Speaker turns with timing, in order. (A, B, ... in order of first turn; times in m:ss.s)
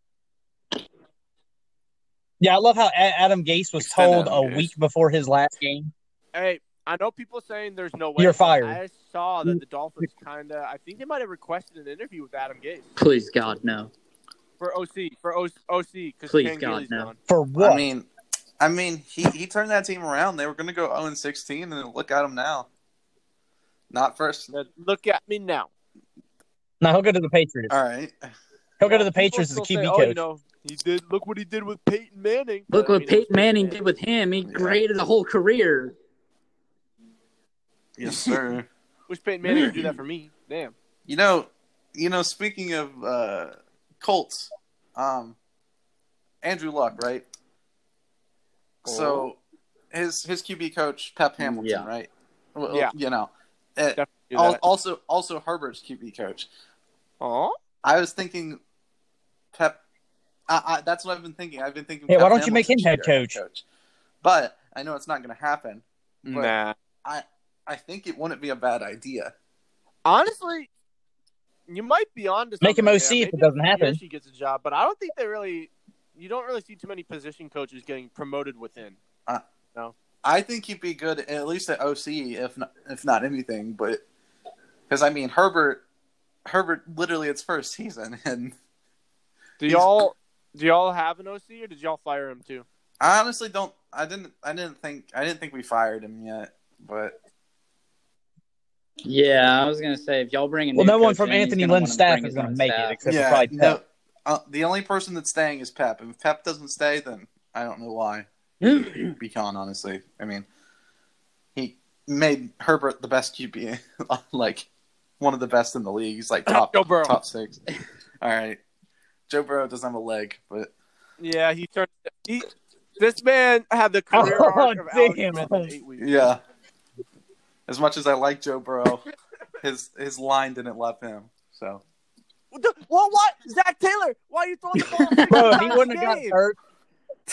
0:02.4-0:05.9 A
0:03.8-0:04.7 B
0:06.3-0:12.9 C
0:08.2-0:08.8 A
0:09.4-0:10.0 A
0:13.0-0:13.9 D
0:14.6-0:17.2 C
0:16.3-0:17.1 D
0:17.3-0:17.8 A
0:17.6-0:18.1 B
0:18.6-0:22.7 B
0:23.9-0:24.5 B
0:24.5-0:25.7 C
0:26.8-0:27.8 A
0:27.7-0:28.3 B
0:28.8-0:30.2 A
0:28.8-0:33.8 C
0:32.7-0:36.0 D
0:34.5-0:34.8 B
0:38.0-0:38.7 B
0:39.1-0:40.7 C
0:41.1-0:45.4 B
0:46.4-0:47.3 B
0:48.8-0:49.4 B
0:48.9-0:49.3 D
0:49.9-0:56.5 B
0:51.4-0:51.9 D
0:54.0-0:54.6 C
0:57.2-0:57.6 C
0:57.8-0:58.6 B
0:59.5-0:59.8 B
1:00.5-1:03.6 B
1:02.1-1:03.4 A
1:04.2-1:06.5 B
1:06.2-1:06.8 C
1:07.0-1:09.3 B
1:10.0-1:10.7 C
1:11.7-1:19.0 C
1:12.6-1:14.0 A
1:20.2-1:24.0 B
1:24.9-1:25.8 B
1:26.5-1:28.6 B
1:29.6-1:32.6 C
1:29.6-1:29.9 B
1:33.0-1:37.2 B
1:39.0-1:43.0 D
1:40.8-1:43.8 A
1:43.0-1:50.5 B
1:48.6-1:49.2 D
1:51.6-1:54.7 B
1:55.2-1:57.6 B
1:56.5-1:57.2 C
1:58.2-1:58.6 B
1:59.3-2:00.7 B
2:01.2-2:06.1 C
2:04.1-2:05.7 A
2:06.0-2:06.4 B
2:07.7-2:09.0 B
2:09.6-2:11.8 B
2:12.5-2:16.4 C
2:14.8-2:15.8 D
2:15.3-2:16.6 A